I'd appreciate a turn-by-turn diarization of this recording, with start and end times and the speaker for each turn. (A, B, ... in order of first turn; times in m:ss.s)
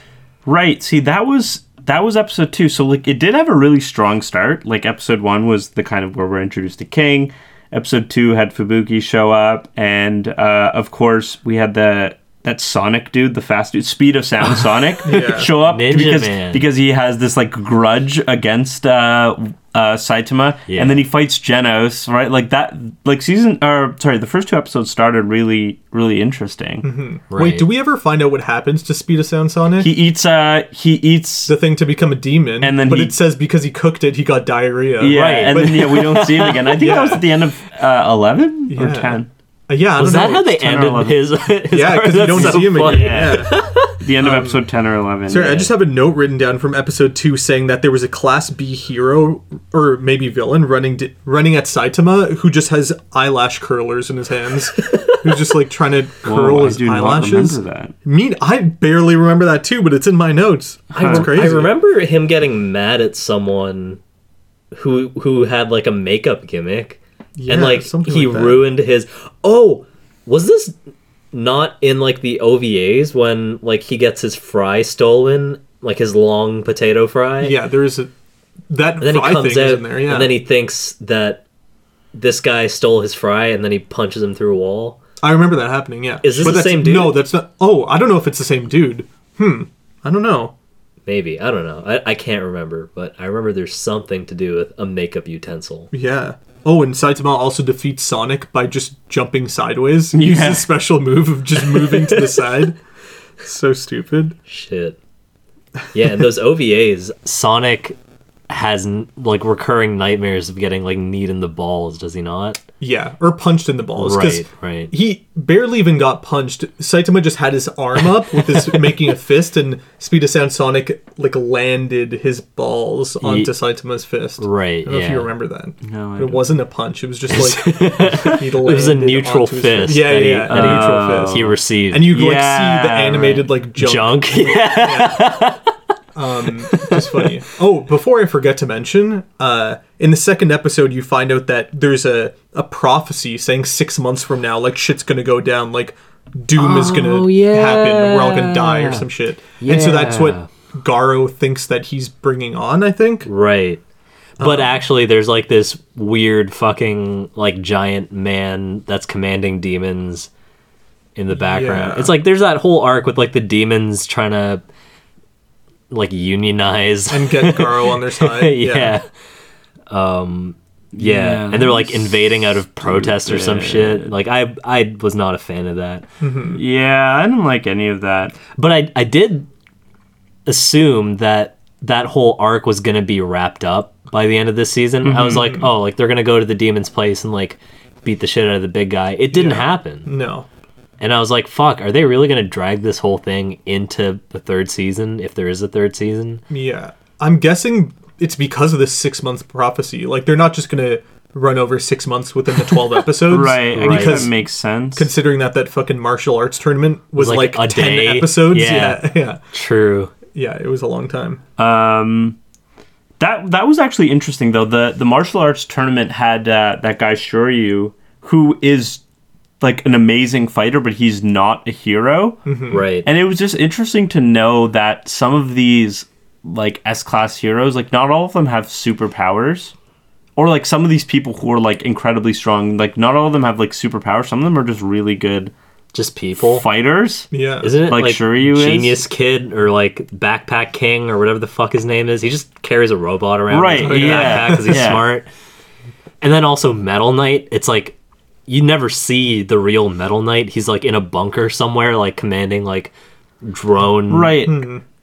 0:00.5-0:26.9 A
0:15.0-0:15.5 B
0:15.6-0:16.6 C
0:20.7-0:20.9 C
0:26.8-0:29.9 B
0:27.3-0:27.7 C
0:29.8-0:31.5 A
0:31.5-0:36.1 B
0:32.6-0:33.2 A
0:35.0-0:39.3 A
0:35.1-0:36.9 C
0:36.7-0:37.2 B
0:38.7-0:39.2 B
0:39.7-0:40.5 B
0:40.0-0:44.0 C
0:40.6-0:41.2 A
0:41.7-0:43.6 B
0:42.4-0:45.7 A
0:44.2-0:44.6 B
0:45.3-1:01.7 B
0:54.8-0:55.2 C
0:56.2-0:57.9 A
1:01.0-1:01.5 A
1:01.0-1:04.0 C
1:04.7-1:10.7 C
1:07.4-1:08.6 B
1:11.3-1:17.6 C
1:17.4-1:18.1 B
1:18.7-1:20.4 B
1:19.0-1:21.4 C
1:22.1-1:25.0 C
1:25.2-1:30.5 B
1:26.2-1:27.2 C
1:31.1-1:35.9 C
1:35.9-1:42.8 B
1:40.1-1:40.7 A
1:43.4-1:44.4 B
1:44.5-1:45.0 C
1:45.9-1:48.0 C
1:48.5-1:52.6 C
1:52.8-2:15.3 B
1:54.0-1:54.9 C
1:58.2-1:58.9 C
2:03.2-2:03.5 C
2:04.4-2:05.3 C
2:05.8-2:06.5 A
2:07.3-2:12.2 C
2:10.5-2:11.6 A
2:12.1-2:13.4 A
2:13.8-2:15.6 C
2:16.2-2:33.3 B
2:16.4-2:17.4 C
2:26.6-2:29.1 C
2:29.6-2:30.5 C
2:33.2-2:33.8 C
2:34.4-2:34.8 B
2:34.4-2:40.3 C
2:41.2-2:44.6 C
2:41.4-2:42.1 B
2:45.9-2:49.1 C
2:47.1-2:49.0 B
2:49.9-2:56.1 C
2:51.0-2:52.3 A
2:52.8-2:54.1 A
2:56.2-2:56.6 B
2:56.5-2:58.4 A
2:58.5-2:59.5 C
3:00.5-3:10.1 C
3:05.0-3:05.6 A
3:09.3-3:10.5 B
3:11.0-3:16.4 C
3:16.5-3:24.4 B
3:23.2-3:25.1 A
3:23.7-3:24.3 C
3:25.0-3:29.4 B
3:27.2-3:30.1 C
3:30.3-3:31.4 B
3:31.6-3:32.4 A
3:33.2-3:39.0 A
3:39.6-3:42.5 A
3:42.5-3:42.8 B
3:42.7-3:43.1 C
3:43.0-3:49.7 A
3:50.4-3:55.5 A
3:55.9-3:56.6 C
3:56.4-3:57.3 A
3:57.3-3:57.7 B
3:57.6-4:05.3 C
3:57.9-3:59.0 A
4:03.5-4:05.0 A
4:03.8-4:04.9 B
4:06.2-4:08.0 C
4:08.5-4:14.3 C
4:14.1-4:14.7 A
4:14.4-4:14.8 B